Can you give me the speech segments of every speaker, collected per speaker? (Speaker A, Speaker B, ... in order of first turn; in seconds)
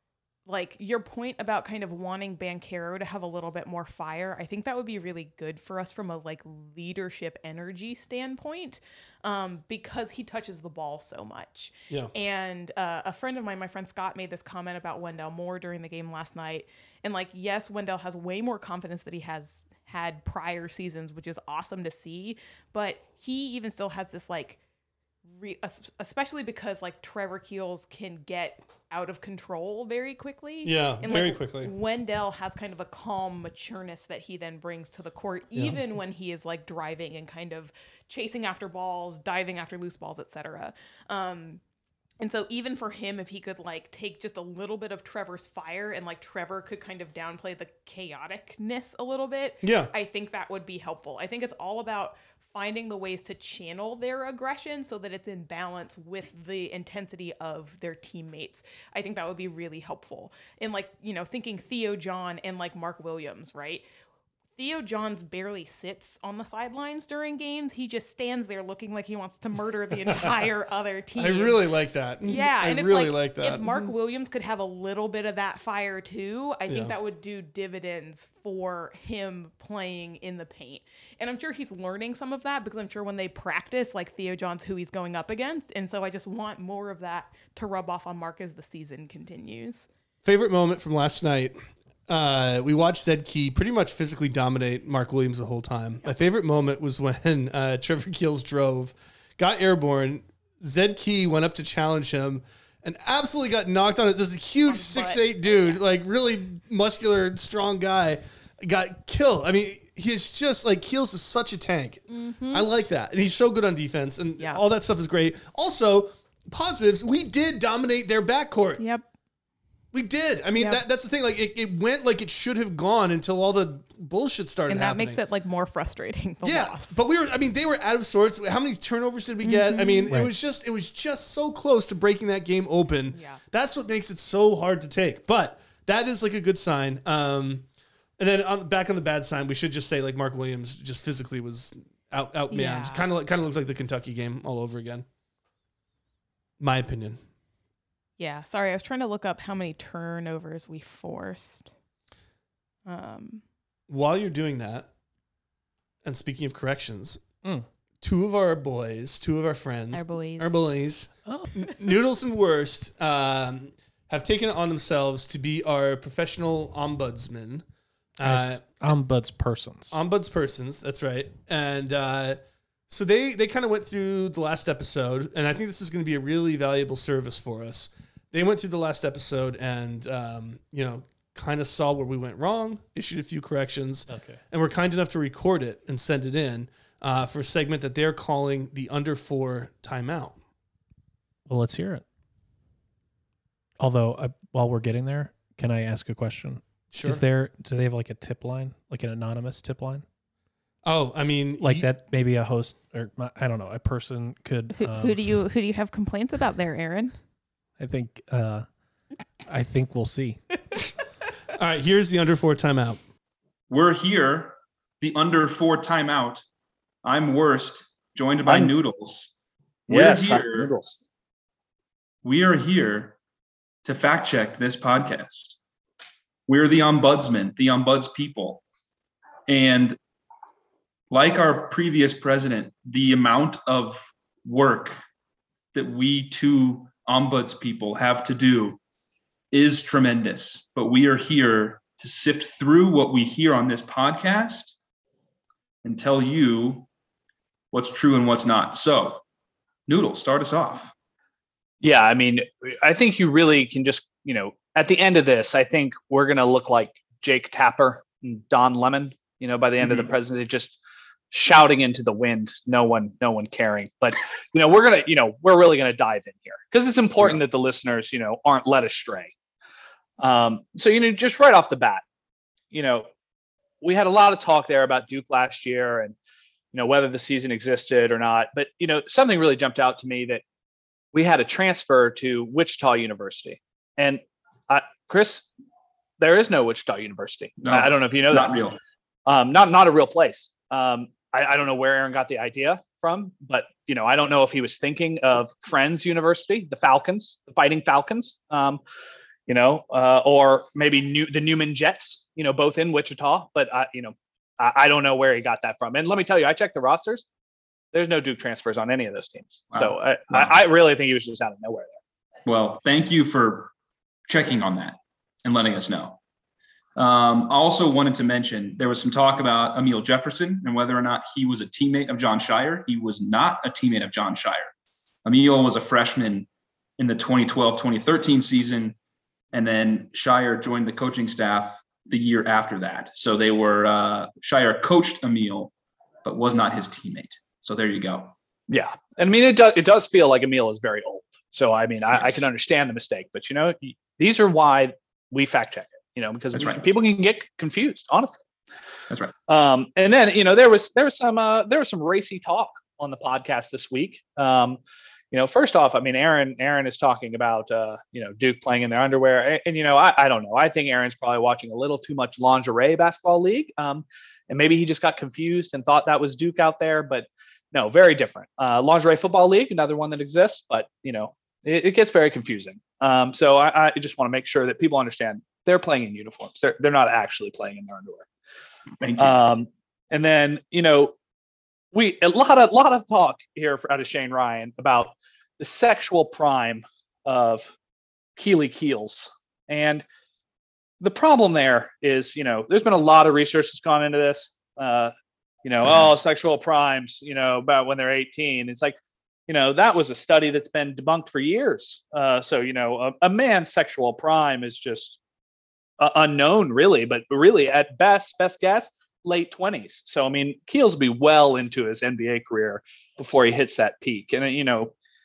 Speaker A: 0.5-24.6, 25.4-41.6, 42.2-63.9, 64.6-71.6, 72.2-89.9, 104.7-105.8, 112.1-112.7, 118.8-119.1, 120.6-120.8, 124.7-127.0, 129.4-130.1, 133.1-133.4, 142.5-143.1, 148.2-151.7, 152.9-153.4, 159.9-160.6, 204.8-207.2
Speaker B: 30.6-31.7, 49.6-49.9, 71.2-73.8, 76.7-76.9, 90.2-118.8, 119.9-125.2, 126.4-137.7, 138.2-145.1, 146.6-147.2, 153.9-154.9, 156.0-157.2, 158.0-167.7, 168.2-168.6, 169.9-190.4, 196.9-197.2, 200.8-201.9, 211.5-213.0
Speaker C: 130.1-130.3, 161.3-161.7, 168.2-170.0, 184.1-184.4, 191.5-192.1, 193.8-200.1, 201.6-205.2, 207.8-208.7, 209.5-210.4
Speaker D: 213.7-216.4, 217.0-219.3, 219.9-220.7, 222.2-223.2, 223.8-225.6, 226.5-228.6, 229.5-230.0, 231.1-235.0, 235.7-238.8, 239.5-244.8, 245.8-246.9, 247.7-249.2, 249.9-250.9, 259.8-260.1, 287.6-288.8, 309.7-310.6, 312.5-313.7, 314.3-316.2, 317.0-324.7, 325.2-329.0, 329.5-335.7, 336.2-338.4, 342.1-342.5, 346.5-347.0, 349.1-349.4, 379.0-379.4, 395.8-396.2
Speaker E: 218.4-218.7, 219.9-221.0, 251.8-260.8, 261.3-269.3, 270.2-272.0, 272.7-273.1, 273.8-276.1, 276.7-280.4, 281.1-285.5, 286.2-288.6, 289.3-298.8, 299.5-307.2, 307.9-312.0, 338.7-348.4, 349.5-354.8, 355.3-378.3, 379.2-381.1, 381.9-387.7, 388.4-390.1, 391.0-395.1, 395.6-399.0, 399.5-405.2, 406.0-414.9